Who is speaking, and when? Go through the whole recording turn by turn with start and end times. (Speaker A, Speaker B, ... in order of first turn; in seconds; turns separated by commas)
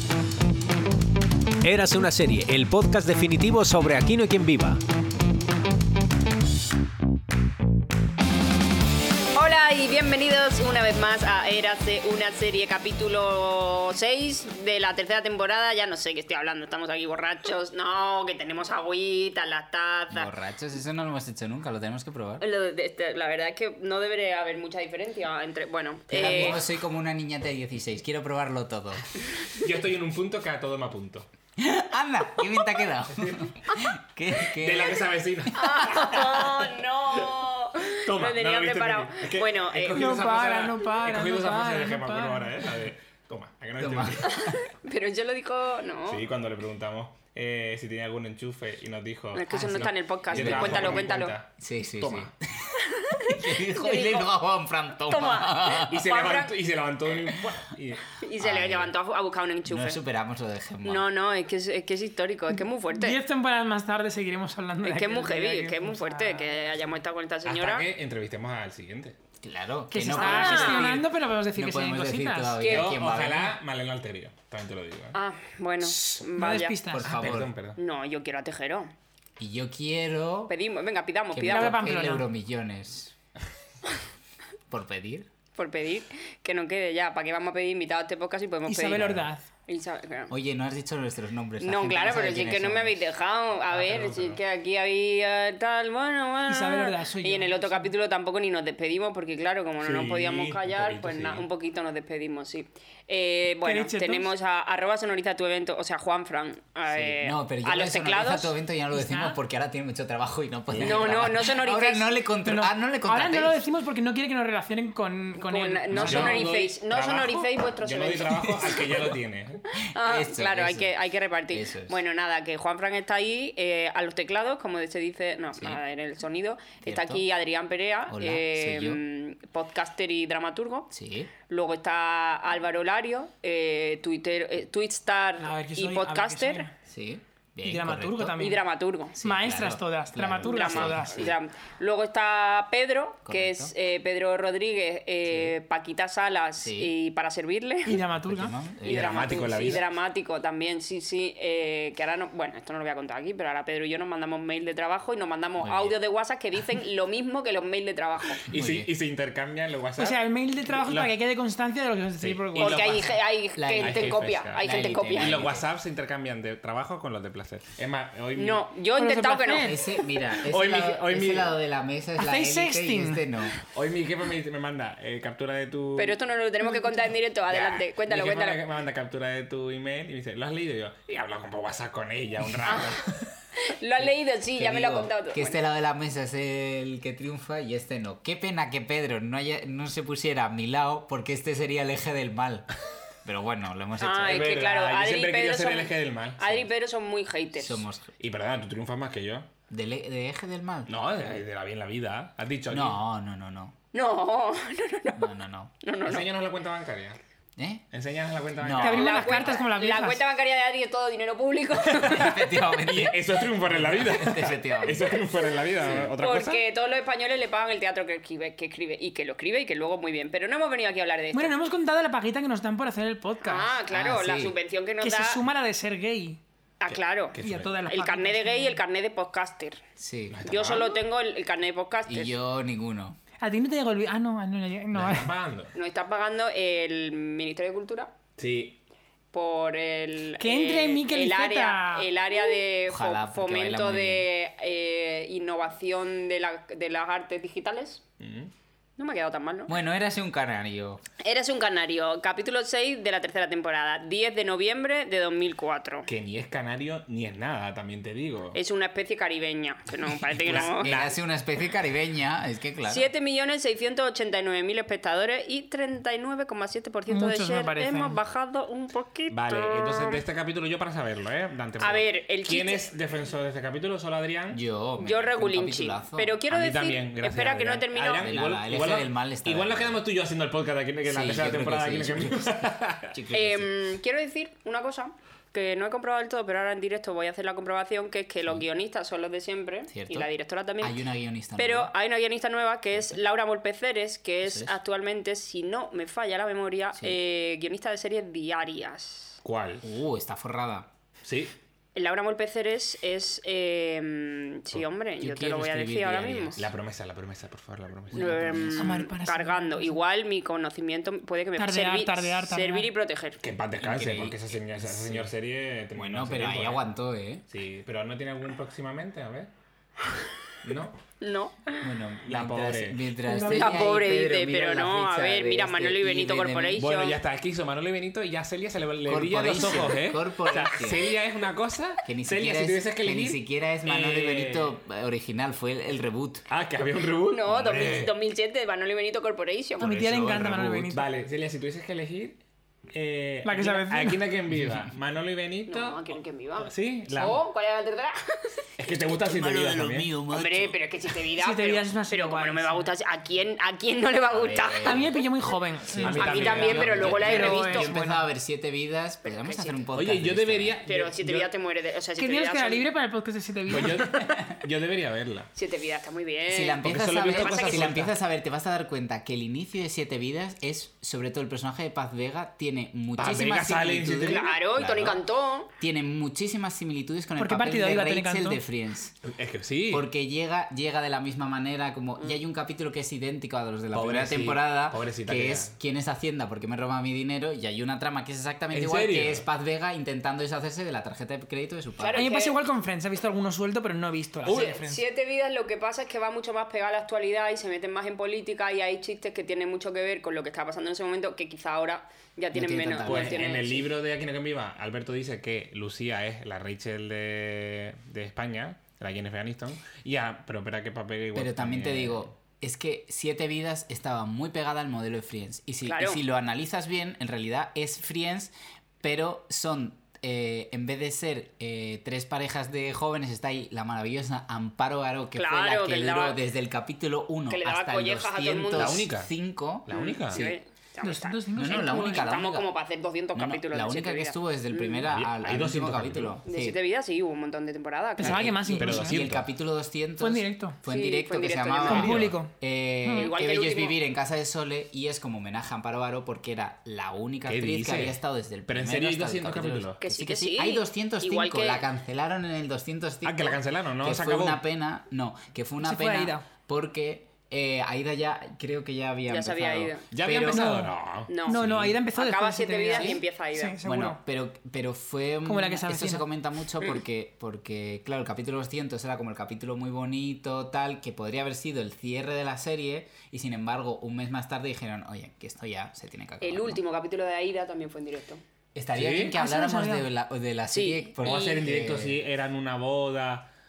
Speaker A: 1.6-4.8, Speaker B: 9.3-20.3, Speaker C: 20.1-22.4, Speaker B: 22.4-26.6, Speaker C: 26.1-29.4, Speaker D: 26.1-26.6, Speaker D: 29.5-31.3, Speaker C: 31.6-36.4, Speaker D: 33.1-33.5, Speaker D: 34.4-36.7, Speaker B: 35.5-40.1, Speaker D: 37.9-44.3, Speaker E: 39.9-42.5, Speaker C: 43.8-44.7, Speaker B: 44.2-46.2, Speaker D: 46.0-52.3, Speaker B: 49.3-51.3, Speaker C: 49.5-56.0, Speaker B: 52.8-54.3, Speaker B: 55.1-56.5, Speaker D: 55.8-58.1, Speaker B: 58.2-60.0, Speaker C: 58.4-58.9, Speaker C: 59.7-61.0, Speaker B: 60.8-63.2, Speaker E: 63.0-66.5, Speaker B: 64.8-67.8, Speaker D: 67.4-69.2, Speaker C: 69.4-73.5, Speaker E: 69.9-72.6, Speaker B: 70.1-70.9, Speaker B: 72.6-72.9, Speaker D: 72.7-75.2, Speaker B: 75.1-76.8, Speaker E: 75.8-77.1, Speaker C: 76.9-77.5, Speaker D: 77.0-77.8, Speaker B: 77.8-78.9, Speaker C: 79.4-80.5, Speaker B: 80.5-81.8, Speaker C: 81.3-83.1, Speaker E: 81.5-82.3, Speaker C: 84.7-85.3, Speaker B: 85.5-90.3, Speaker E: 88.7-89.4, Speaker C: 90.3-93.0, Speaker B: 91.6-108.5, Speaker D: 93.7-94.4, Speaker E: 96.5-97.9, Speaker D: 99.8-101.5, Speaker E: 103.6-104.3, Speaker C: 106.9-113.6, Speaker E: 108.9-109.4, Speaker D: 110.7-111.2, Speaker B: 110.8-112.1, Speaker E: 112.4-116.1, Speaker B: 115.4-118.8, Speaker D: 115.9-119.6, Speaker C: 115.9-116.4, Speaker B: 119.9-130.9, Speaker C: 119.9-120.9, Speaker C: 121.5-122.0, Speaker C: 125.6-125.8, Speaker C: 126.8-127.2, Speaker C: 128.1-129.0, Speaker C: 130.9-131.3, Speaker B: 131.5-136.7, Speaker E: 135.4-136.7, Speaker C: 136.8-138.4, Speaker E: 137.6-138.6, Speaker B: 138.4-139.2, Speaker C: 139.2-141.4, Speaker E: 139.2-141.2, Speaker B: 140.4-148.0, Speaker C: 143.2-143.7, Speaker C: 145.2-145.6, Speaker C: 146.6-146.9, Speaker E: 147.8-148.5, Speaker C: 148.1-149.2, Speaker B: 148.8-158.4, Speaker D: 148.8-149.8, Speaker C: 155.6-155.9, Speaker D: 158.4-161.1, Speaker C: 158.5-158.9, Speaker E: 160.0-163.0, Speaker D: 162.2-168.6, Speaker B: 162.6-165.4, Speaker C: 163.6-165.7, Speaker B: 168.3-169.8, Speaker E: 168.9-169.9, Speaker C: 169.6-173.6, Speaker D: 170.5-171.6, Speaker E: 172.2-173.2, Speaker D: 173.7-176.2, Speaker B: 176.0-178.6, Speaker D: 177.5-183.2, Speaker B: 182.7-183.0, Speaker B: 183.6-185.6, Speaker C: 184.5-192.7, Speaker C: 193.2-194.6, Speaker B: 194.0-197.8, Speaker D: 194.2-196.4, Speaker C: 197.5-198.1, Speaker D: 198.2-199.5, Speaker C: 199.7-200.9, Speaker D: 200.9-203.0, Speaker C: 202.7-203.8, Speaker B: 203.9-205.3, Speaker C: 205.2-205.7, Speaker B: 205.8-206.3, Speaker D: 206.0-207.2, Speaker C: 207.6-207.8, Speaker D: 207.9-209.4, Speaker C: 208.6-209.5, Speaker E: 208.8-210.2, Speaker B: 208.9-212.5, Speaker D: 211.9-216.6, Speaker C: 212.0-215.2, Speaker C: 215.8-216.1, Speaker B: 215.8-221.6, Speaker E: 221.3-223.8, Speaker B: 223.4-225.4, Speaker C: 223.9-224.6, Speaker E: 225.0-226.4, Speaker B: 226.8-229.8, Speaker D: 226.9-227.8, Speaker E: 227.4-228.8, Speaker C: 230.0-230.4, Speaker D: 230.3-231.0, Speaker B: 230.4-232.3, Speaker C: 232.1-233.2, Speaker E: 233.4-235.3, Speaker D: 234.9-235.7, Speaker B: 235.7-238.1, Speaker D: 238.4-238.8, Speaker B: 239.3-248.0, Speaker E: 240.4-242.1, Speaker C: 242.9-244.3, Speaker D: 248.2-248.5, Speaker B: 249.0-249.7, Speaker C: 249.7-251.1, Speaker B: 251.2-256.1, Speaker D: 256.1-258.6, Speaker B: 258.5-261.1, Speaker D: 260.3-261.1, Speaker C: 260.4-263.1, Speaker B: 262.9-270.2, Speaker E: 267.1-268.1, Speaker D: 269.3-274.6, Speaker B: 271.8-272.9, Speaker C: 274.5-276.4, Speaker B: 275.0-278.3, Speaker D: 276.5-283.1, Speaker C: 278.2-280.0, Speaker C: 281.1-283.9, Speaker B: 283.3-291.0, Speaker C: 289.9-290.3, Speaker C: 290.8-291.9, Speaker B: 291.6-299.4, Speaker C: 294.4-294.8, Speaker D: 299.4-299.8, Speaker C: 299.8-300.9, Speaker D: 301.2-301.5, Speaker B: 301.9-306.6, Speaker C: 305.2-306.7, Speaker D: 306.6-308.4, Speaker C: 308.1-309.1, Speaker B: 308.1-313.4, Speaker E: 308.8-310.0, Speaker E: 311.6-312.9, Speaker D: 313.4-316.8, Speaker C: 313.8-315.3, Speaker C: 315.9-317.4, Speaker D: 317.5-319.5, Speaker D: 320.6-321.0, Speaker B: 321.2-321.9, Speaker C: 321.8-326.9, Speaker D: 322.2-323.1, Speaker E: 323.2-323.9, Speaker B: 323.4-327.2, Speaker D: 326.8-334.7, Speaker C: 329.1-331.1, Speaker C: 332.0-336.4, Speaker D: 336.5-338.1, Speaker B: 337.3-340.0, Speaker E: 339.8-341.1, Speaker D: 339.8-342.4, Speaker D: 342.9-347.4, Speaker E: 343.4-344.2, Speaker B: 345.7-348.6, Speaker D: 348.8-350.1, Speaker C: 349.1-350.8, Speaker B: 350.3-355.1, Speaker E: 351.4-352.9, Speaker C: 354.3-355.1, Speaker E: 354.8-358.2, Speaker C: 355.9-360.8, Speaker D: 356.0-357.8, Speaker B: 356.1-357.9, Speaker B: 359.2-359.8, Speaker D: 359.9-361.5, Speaker B: 360.8-362.9, Speaker E: 362.2-364.3, Speaker D: 363.7-365.5, Speaker B: 365.6-368.0, Speaker C: 366.5-375.1, Speaker D: 366.8-368.1, Speaker D: 373.2-375.2, Speaker B: 374.2-375.7, Speaker C: 375.8-379.1, Speaker E: 377.4-378.6, Speaker D: 379.2-380.1, Speaker C: 379.9-392.4, Speaker D: 383.9-385.7, Speaker D: 388.7-389.4, Speaker B: 392.0-392.6, Speaker E: 392.1-395.0, Speaker D: 394.4-394.8, Speaker B: 394.5-403.9, Speaker C: 402.5-403.5, Speaker D: 403.0-412.3, Speaker C: 411.3-430.6, Speaker B: 415.8-416.2, Speaker B: 425.3-426.4, Speaker B: 427.5-429.0, Speaker D: 428.8-429.3, Speaker D: 429.9-430.5, Speaker B: 429.9-435.1, Speaker E: 431.0-432.3, Speaker C: 431.6-432.7, Speaker C: 433.3-436.8, Speaker D: 435.1-436.4, Speaker B: 436.4-438.6, Speaker E: 438.2-439.2, Speaker D: 438.2-439.5, Speaker C: 438.8-460.7, Speaker E: 440.2-440.8, Speaker B: 440.8-442.1, Speaker D: 441.8-442.4, Speaker E: 441.9-442.5, Speaker E: 443.0-443.3, Speaker B: 443.1-444.0, Speaker D: 447.4-450.0, Speaker B: 450.0-451.9, Speaker D: 453.2-454.6, Speaker E: 455.8-456.4, Speaker B: 459.3-460.1, Speaker D: 460.1-462.0, Speaker E: 460.4-460.9, Speaker B: 461.3-461.6, Speaker E: 461.5-464.2, Speaker B: 462.1-463.8, Speaker C: 462.9-463.2, Speaker C: 463.8-476.8, Speaker E: 465.4-466.3, Speaker B: 476.4-478.4, Speaker C: 478.8-482.2, Speaker D: 478.9-479.3, Speaker E: 479.3-480.1, Speaker B: 480.7-481.6, Speaker D: 481.2-483.5